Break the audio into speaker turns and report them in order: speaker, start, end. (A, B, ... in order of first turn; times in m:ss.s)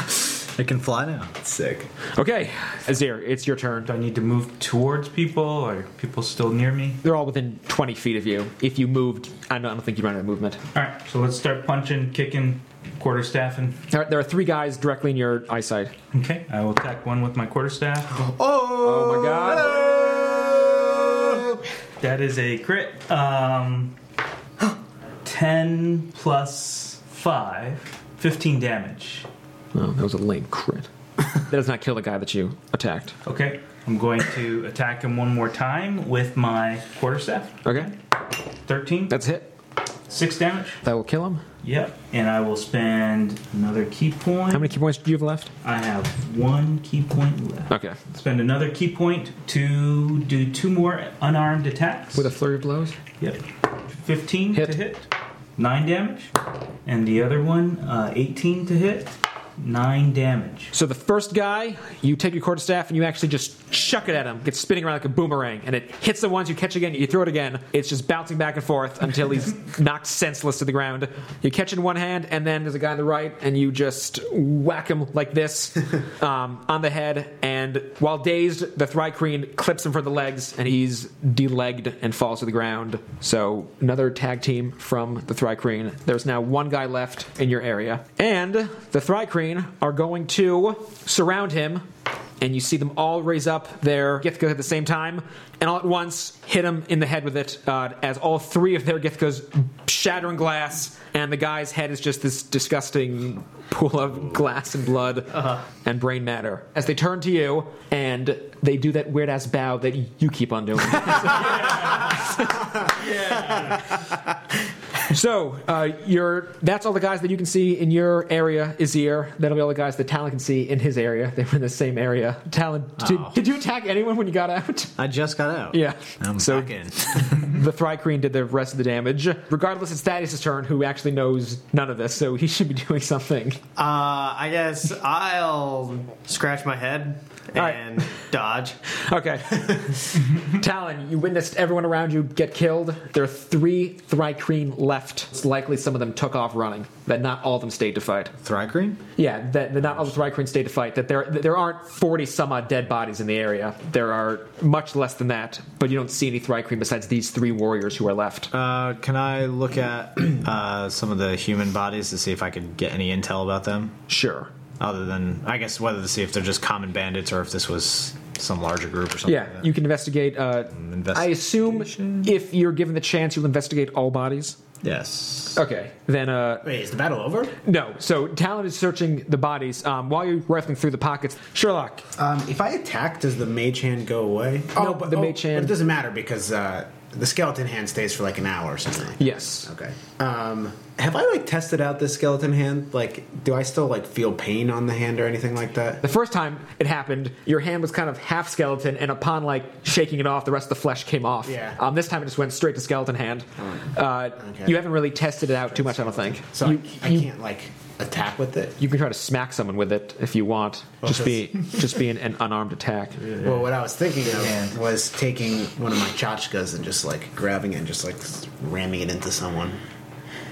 0:00.6-0:01.4 A
0:01.4-0:01.9 B
0:02.2-0:03.9 C
0:03.9-0:07.0 D
0:07.0-0:10.6 C
0:10.7-0:13.8 D
0:13.9-0:15.9 C
0:16.1-0:18.3 D
0:18.3-0:18.7 E
0:18.8-0:19.8 C
0:19.2-0:20.5 A
0:22.0-0:24.0 D
0:25.2-0:29.3 D
0:29.7-0:33.2 C
0:33.2-0:37.9 D
0:37.6-0:37.9 C
0:38.7-0:39.1 D
0:39.1-0:39.5 C
0:40.1-0:40.8 D
0:40.8-0:41.4 C
0:41.6-0:44.7 D
0:44.5-0:45.5 C
0:45.6-0:52.3 D
0:47.7-0:48.0 C
0:52.2-0:53.0 C
0:54.0-0:56.3 D
0:56.9-1:00.7 D
1:00.7-1:31.9 C
1:32.4-1:52.9 C
1:51.2-1:52.3 D
1:52.8-1:53.9 D
1:55.1-2:05.0 C
2:03.0-2:03.4 A
2:05.0-2:07.4 A
2:05.7-2:13.6 C
2:13.8-2:18.8 E
2:17.6-2:17.8 C
2:19.0-2:28.3 C
2:28.4-2:29.0 A
2:29.2-2:38.5 C
2:38.5-2:44.0 A
2:44.1-2:44.5 C
2:44.8-2:49.7 A
2:49.3-2:54.6 C
2:50.7-2:52.3 A
2:54.8-2:55.6 A
2:55.5-2:56.7 C
2:56.6-2:57.6 B
2:57.6-3:02.1 C
3:02.2-3:16.0 B
3:04.8-3:05.7 C
3:09.2-3:09.7 C
3:16.0-3:27.3 C
3:21.4-3:21.8 B
3:24.4-3:24.8 B
3:25.7-3:28.8 B
3:28.8-3:33.2 C
3:31.0-3:31.5 B
3:33.4-3:39.8 B
3:34.4-3:34.8 D